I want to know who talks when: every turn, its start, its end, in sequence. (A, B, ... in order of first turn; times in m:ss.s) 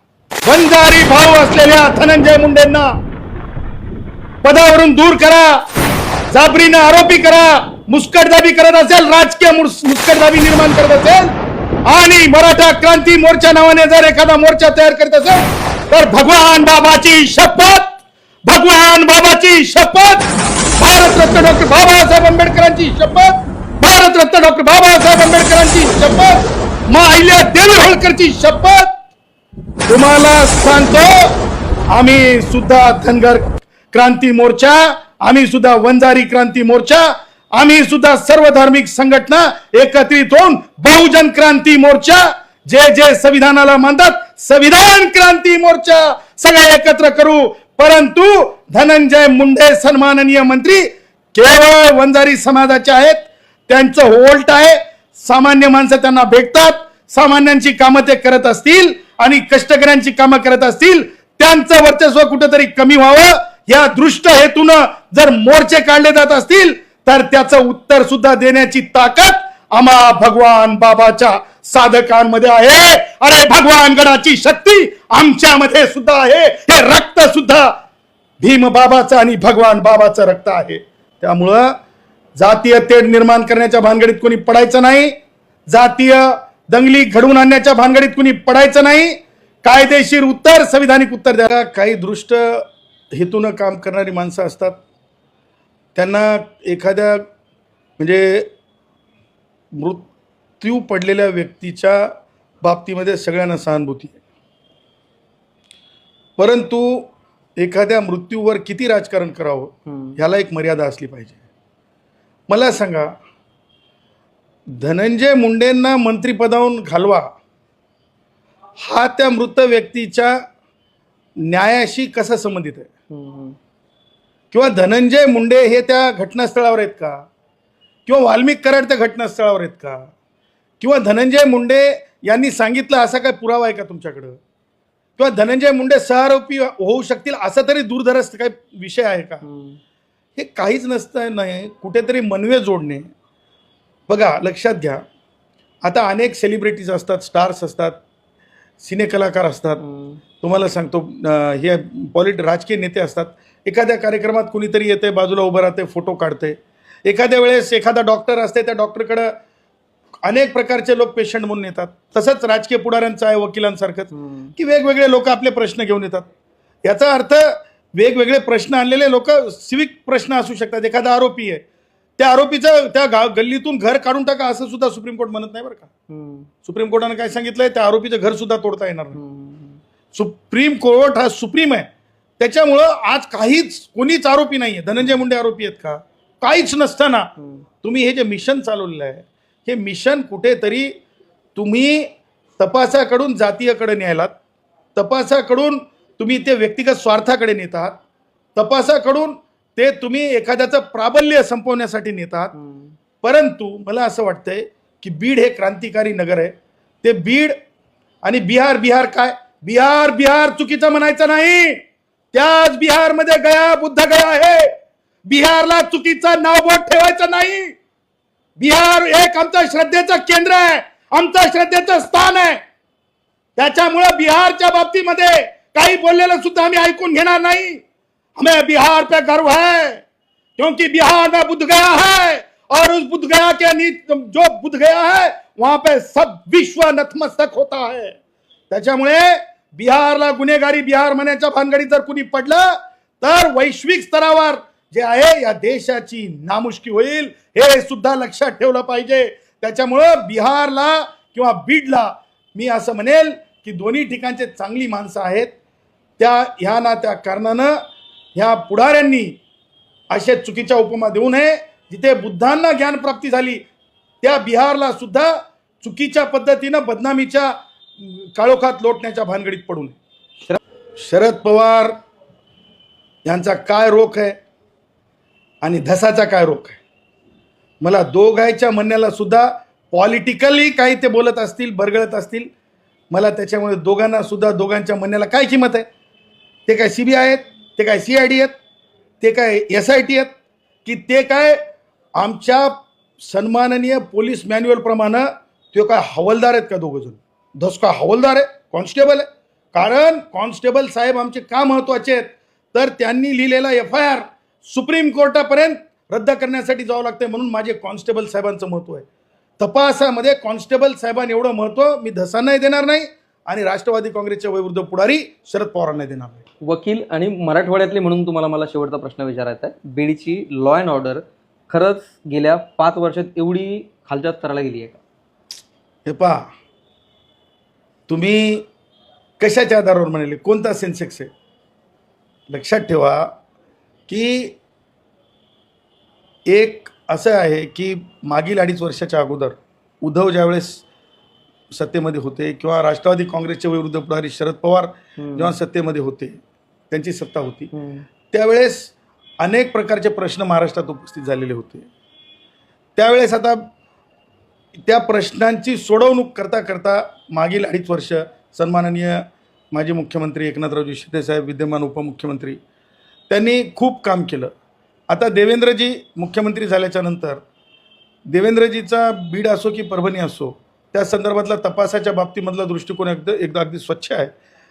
0:00.4-0:02.9 A
0:04.4-0:05.6 A
0:06.3-0:11.3 A
0:11.9-0:20.3 A
0:20.8-0:28.9 A
0:29.9-0:31.3 A
0:31.9-1:17.7 A
1:18.4-1:21.8 A
1:22.4-1:25.1 A
1:25.7-1:34.8 A
1:36.0-1:37.2 A
1:38.0-1:38.5 A
1:39.8-1:40.1 A
1:40.6-1:42.1 A
1:42.6-1:44.2 A
1:46.4-1:51.4 A
1:49.9-1:50.2 B
1:52.5-1:53.1 A
1:54.8-1:57.3 A
1:58.8-2:00.4 A
2:01.4-2:02.9 A
2:03.1-2:03.6 B
2:04.5-2:07.2 A
2:08.1-2:10.1 A
2:10.8-2:14.4 A
2:15.2-2:19.4 A
2:19.4-2:19.8 B
2:20.4-2:23.1 A
2:24.1-2:25.0 A
2:25.8-2:28.0 A
2:28.8-2:29.8 A
2:29.8-2:30.2 B
2:30.4-2:39.3 A
2:40.2-2:46.3 A
2:44.1-2:44.5 B
2:46.8-2:51.6 A
2:52.2-2:55.9 A
2:56.1-2:56.5 B
2:56.6-2:59.2 A
2:59.1-2:59.8 B
3:00.1-3:01.9 A
3:02.4-3:07.3 A
3:07.8-3:10.9 A
3:11.6-3:14.4 A
3:15.0-3:18.0 A
3:18.6-3:22.5 A
3:22.6-3:22.9 B
3:23.2-3:27.5 A
3:28.2-3:31.8 A
3:32.3-3:34.7 A
3:35.2-3:37.7 A
3:38.6-3:42.6 A
3:43.6-3:47.8 A
3:48.4-3:50.0 A
3:50.6-3:58.2 A
3:58.7-4:15.5 A
4:16.2-4:17.8 A
4:18.4-4:19.4 A
4:20.1-4:23.6 A
4:24.2-4:25.3 A
4:25.8-4:30.0 A
4:31.0-4:32.0 A
4:33.2-4:34.4 A
4:35.6-4:36.8 A
4:37.8-4:42.5 A
4:43.1-4:45.9 A
4:46.7-4:48.5 A
4:49.2-4:50.3 A
4:50.8-4:51.6 A
4:52.2-5:09.1 A
5:09.6-5:16.4 A
5:16.6-5:25.0 B
5:26.1-5:26.5 A
5:28.1-5:28.7 A
5:29.4-5:31.3 A
5:32.5-5:33.3 A
5:34.1-5:34.6 A
5:36.5-5:40.8 A
5:41.7-5:46.4 A
5:45.2-5:45.5 B
5:46.9-5:47.7 A
5:47.7-5:48.0 B
5:48.3-5:51.9 A
5:53.0-5:53.7 A
5:54.9-6:02.6 A
6:03.3-6:04.5 A
6:05.1-6:07.4 A
6:08.3-6:14.3 A